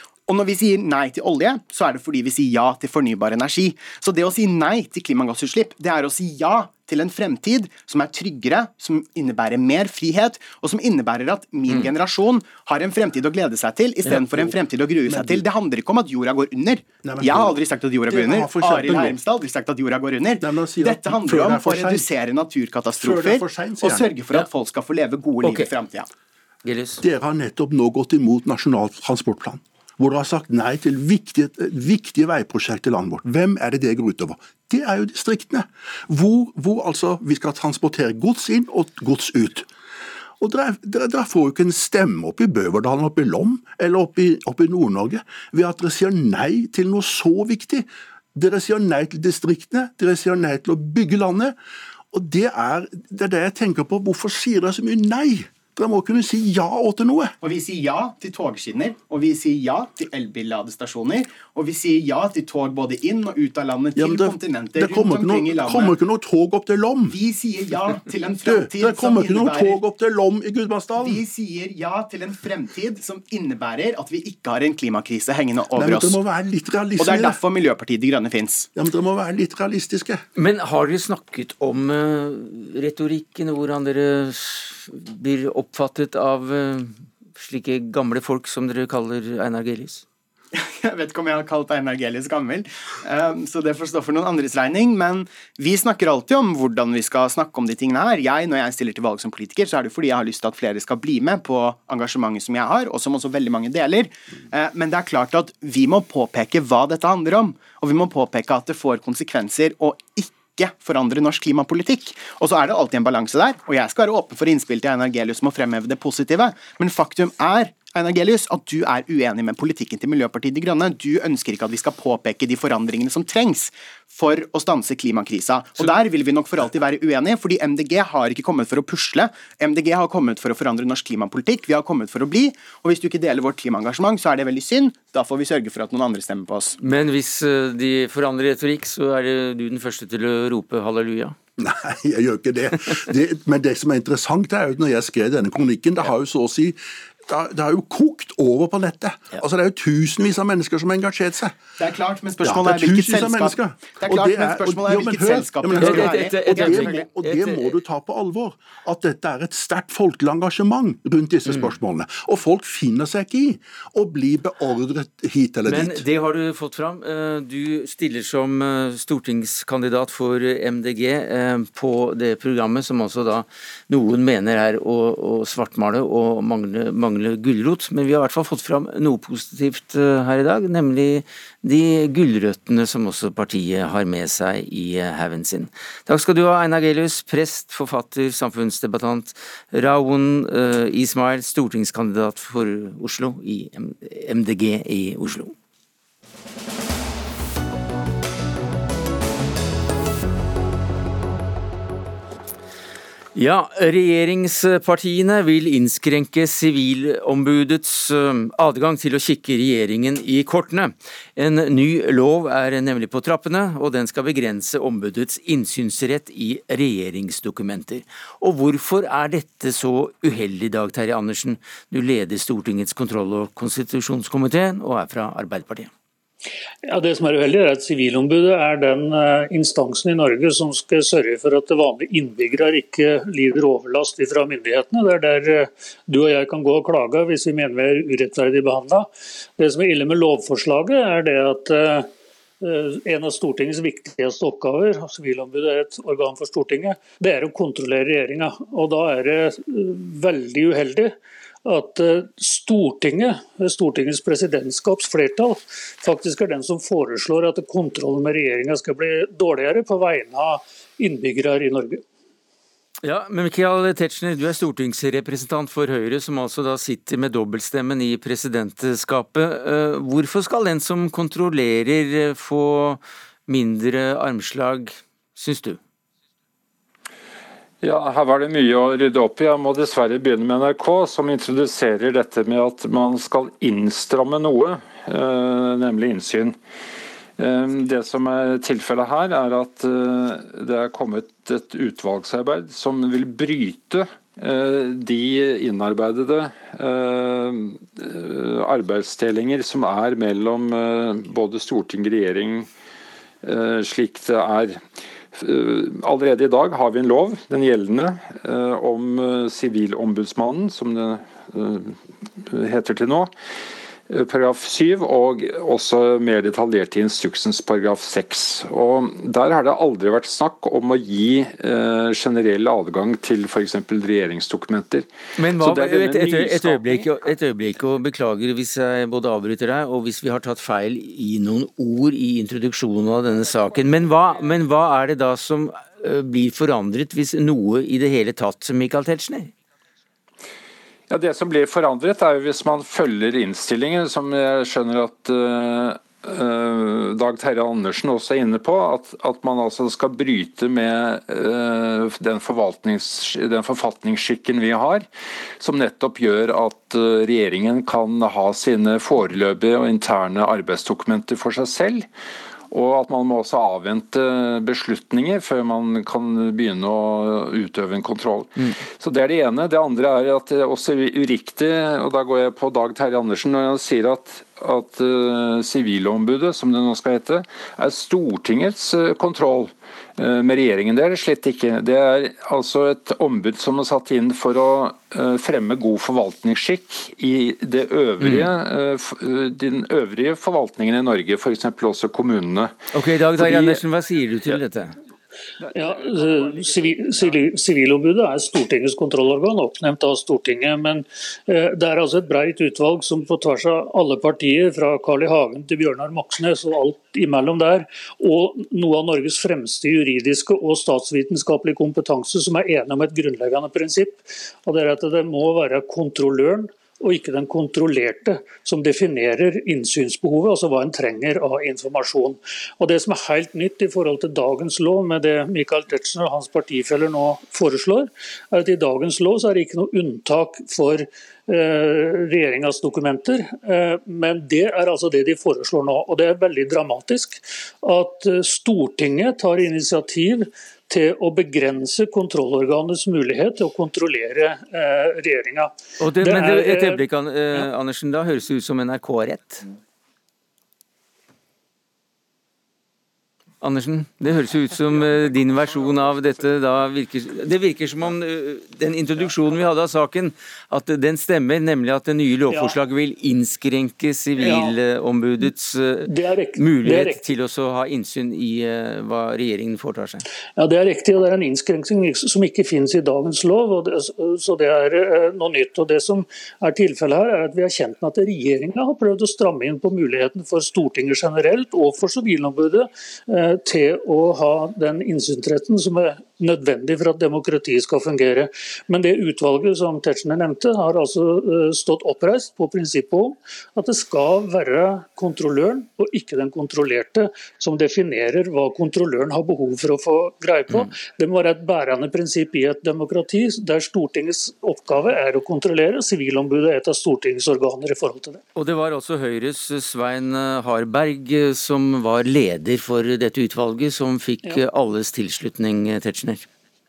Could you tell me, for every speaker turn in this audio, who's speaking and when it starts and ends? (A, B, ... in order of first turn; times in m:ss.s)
0:00.3-0:26.1 A
0:14.0-0:14.5 B
0:15.1-0:15.4 B
0:17.0-0:19.2 B
0:20.4-0:22.0 B
0:22.9-0:24.1 B
0:25.4-0:25.7 C
0:26.6-0:27.0 C
0:27.0-0:39.7 B
0:40.4-0:51.6 B
0:52.1-0:57.3 B
0:57.4-1:06.0 A
1:04.0-1:07.2 B
1:07.1-1:09.8 A
1:08.4-1:11.2 B
1:11.0-1:16.2 A
1:15.8-1:17.4 B
1:17.0-1:18.7 A
1:18.7-1:20.2 B
1:20.4-1:30.0 C
1:30.5-2:16.8 A
2:16.8-2:21.4 C
2:21.6-2:31.6 B
2:31.8-2:37.1 A
2:32.4-2:46.0 B
2:35.8-2:37.8 C
2:45.6-3:15.6 C
3:23.3-3:45.9 C
3:46.9-4:02.1 D
4:02.6-4:22.0 D
4:23.0-4:35.8 C
4:37.8-4:46.6 E
4:47.4-5:02.7 E
5:03.4-5:13.3 E
5:14.1-5:27.1 E
5:25.4-5:39.5 C
5:41.1-5:55.0 E
5:55.6-6:02.1 E
6:02.7-6:32.7 E
6:28.2-6:28.5 C
6:32.9-6:35.0 C
6:33.3-6:33.8 E
6:35.7-6:37.0 E
6:35.7-7:27.0 D
7:26.0-7:29.7 C
7:33.6-7:50.2 C
7:42.5-7:42.8 D
7:44.4-7:44.7 D
7:46.1-7:47.2 D
7:50.6-8:28.4 D
8:28.6-8:36.4 C